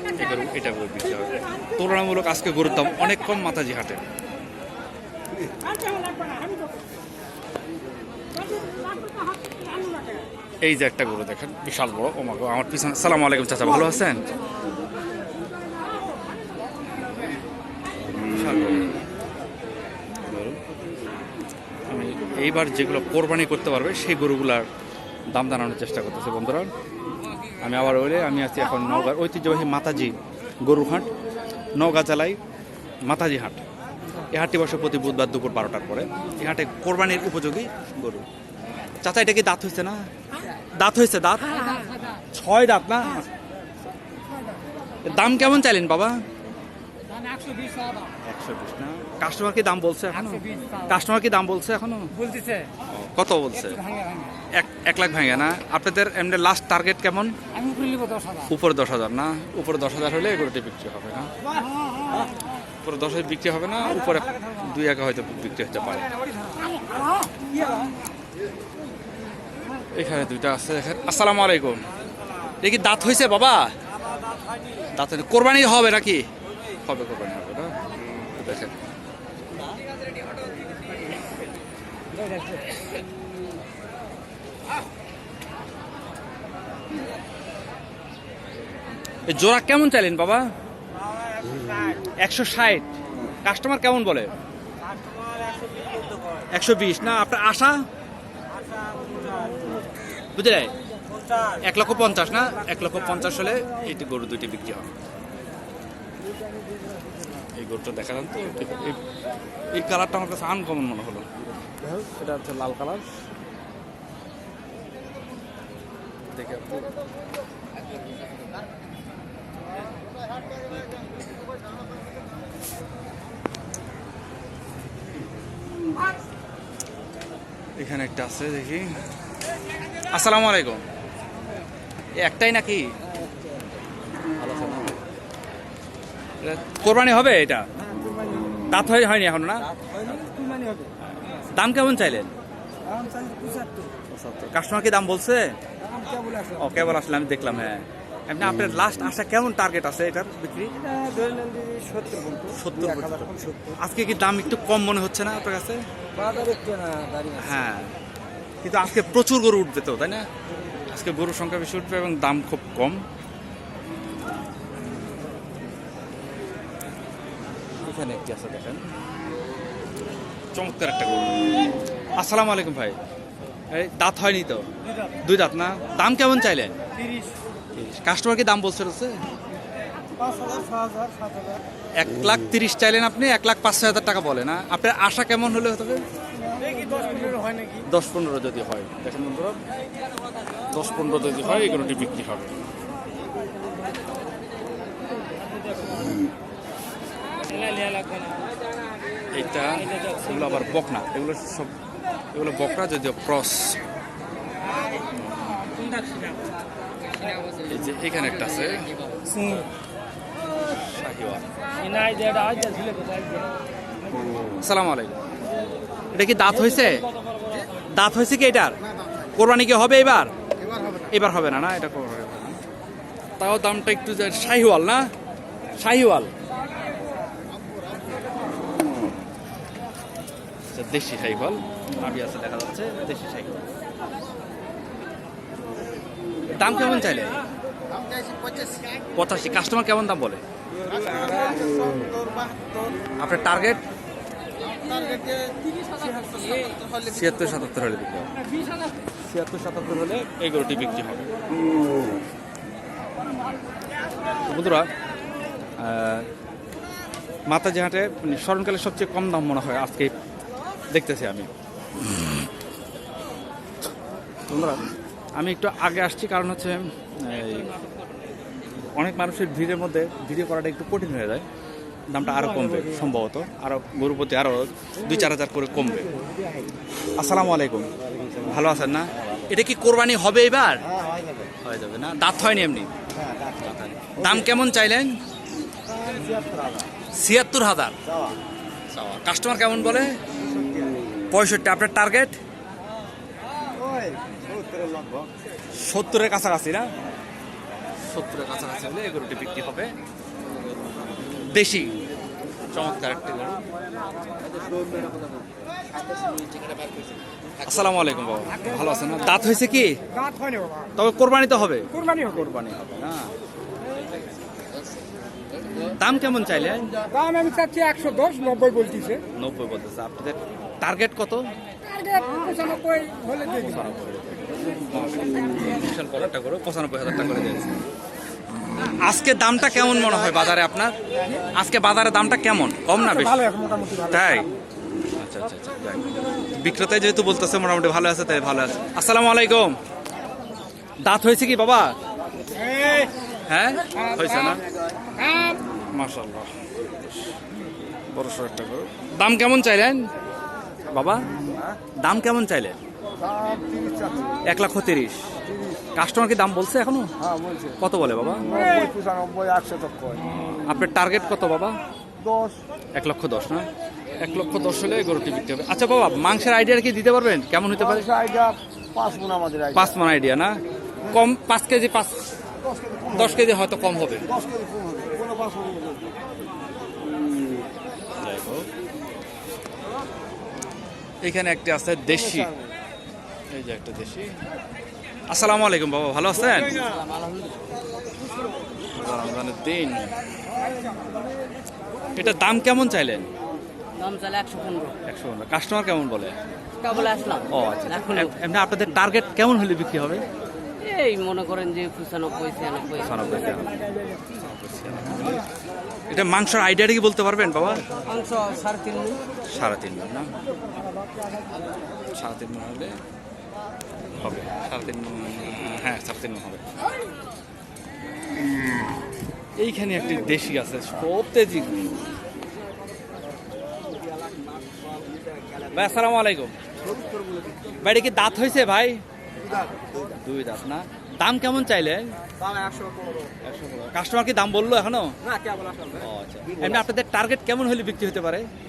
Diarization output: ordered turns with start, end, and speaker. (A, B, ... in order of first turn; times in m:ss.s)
0:00.2-0:04.0 A
0:10.6-0:14.2 A
0:18.3-0:18.9 A
0:20.2-0:20.6 A
0:21.9-0:24.7 A
0:25.3-0:26.7 A
0:27.6-0:31.1 A
0:31.8-0:32.4 A
0:33.0-0:33.6 A
0:34.3-0:38.3 A
0:39.0-0:40.1 A
0:40.8-0:43.3 A
0:45.0-0:46.2 A
0:48.2-0:52.2 A
0:52.9-0:53.8 A
0:54.5-0:57.3 A
0:57.7-0:58.4 B
0:58.4-1:01.3 A
1:02.8-1:06.1 A
1:10.0-1:11.8 A
1:12.6-1:13.7 A
1:14.9-1:16.3 A
1:16.8-1:17.8 A
1:18.3-1:18.8 A
1:29.3-1:30.4 A
1:32.2-1:32.9 A
1:33.4-1:34.3 A
1:36.5-1:37.8 A
1:40.4-1:40.7 A
1:41.6-1:44.9 A
1:47.6-1:49.0 A
1:49.7-1:51.3 A
1:51.9-1:53.1 A
1:56.3-1:56.9 A
2:07.8-2:08.9 A
2:10.1-2:10.8 A
2:12.2-2:12.9 A
2:14.4-2:14.9 A
2:16.4-2:17.7 A
2:18.7-2:19.7 A
2:21.4-2:22.3 A
2:22.9-2:23.7 B
2:24.1-2:25.5 A
2:26.0-2:26.4 B
2:26.5-2:31.0 A
2:31.0-2:32.6 B
2:32.5-2:35.8 A
2:33.2-2:33.7 B
2:36.2-2:37.4 B
2:37.3-2:38.0 A
2:38.6-2:40.3 A
2:40.9-2:43.0 A
2:47.8-2:48.9 A
2:50.5-2:51.4 A
2:52.2-2:53.0 A
2:53.7-2:54.7 A
2:55.2-2:56.8 A
2:57.7-2:59.2 A
3:02.0-3:06.0 A
3:07.8-3:09.6 A
3:10.7-3:12.6 A
3:17.7-3:18.1 C
3:19.3-3:21.7 A
3:22.3-3:23.8 A
3:25.0-3:25.9 A
3:27.6-3:28.9 A
3:30.6-3:31.5 A
3:31.9-3:33.4 C
3:34.6-3:35.2 A
3:36.1-3:37.1 A
3:37.9-3:38.8 A
3:39.3-3:40.3 A
3:41.1-3:42.6 A
3:43.4-3:45.1 A
3:45.8-3:46.3 A
3:50.7-3:53.6 A
3:56.6-3:57.4 A
3:58.3-3:58.7 B
3:59.2-4:00.4 A
4:00.9-4:02.7 B
4:03.2-4:03.8 A
4:06.9-4:08.3 A
4:09.3-4:11.3 A
4:14.5-4:14.9 A
4:15.8-4:16.3 A
4:17.5-4:20.1 A
4:20.9-4:21.5 A
4:24.5-4:24.8 A
4:25.4-4:27.7 A
4:29.0-4:31.5 A
4:32.1-4:36.1 A
4:37.2-4:37.9 A
4:38.4-4:40.9 A
4:41.0-4:41.5 B
4:41.6-4:42.9 A
4:43.2-4:43.5 B
4:43.5-4:45.2 A
4:46.0-4:46.8 B
4:47.1-4:48.0 A
4:48.9-4:50.2 A
4:50.5-4:50.9 B
4:51.3-4:52.4 A
4:53.9-4:55.1 B
4:55.8-4:56.9 A
4:58.1-4:59.9 A
5:01.5-5:01.9 A
5:02.7-5:03.6 A
5:07.6-5:10.0 A
5:11.0-5:13.3 A
5:15.8-5:17.1 A
5:17.1-5:19.2 C
5:19.4-5:21.4 A
5:22.0-5:23.5 C
5:23.6-5:27.8 A
5:28.8-5:31.0 A
5:31.5-5:34.5 A
5:33.5-5:34.0 B
5:35.2-5:39.8 A
5:41.0-5:41.9 A
5:43.5-5:44.6 A
5:45.9-5:46.5 A
5:48.1-5:50.0 A
5:50.9-5:51.3 A
5:52.0-5:52.8 A
5:53.2-5:54.4 B
5:54.4-5:55.3 A
5:56.0-5:57.1 A
5:57.2-5:57.8 B
5:57.8-5:58.8 A
5:58.6-6:00.3 B
6:00.6-6:01.8 A
6:02.2-6:02.6 B
6:03.0-6:03.7 A
6:04.2-6:08.2 A
6:08.1-6:09.7 B
6:09.7-6:12.2 A
6:13.1-6:14.4 A
6:14.9-6:15.7 B
6:18.2-6:18.7 A
6:21.2-6:22.6 A
6:23.5-6:24.3 A
6:25.3-6:26.8 A
6:26.8-6:27.6 D
6:28.9-6:30.2 A
6:32.2-6:33.3 A
6:34.0-6:35.0 D
6:35.1-6:36.4 A
6:36.8-6:37.5 D
6:37.5-6:40.2 A
6:38.0-6:38.2 D
6:40.8-6:43.1 D
6:43.0-6:43.8 A
6:44.3-6:45.4 A
6:46.1-6:47.9 A
6:48.1-6:49.2 D
6:49.5-6:50.3 A
6:52.1-6:53.0 A
6:54.2-6:56.7 A
6:59.6-7:01.8 A
7:05.6-7:06.5 A
7:07.8-7:09.0 A
7:10.0-7:12.2 A
7:12.7-7:13.1 B
7:13.4-7:15.2 A
7:15.9-7:18.5 A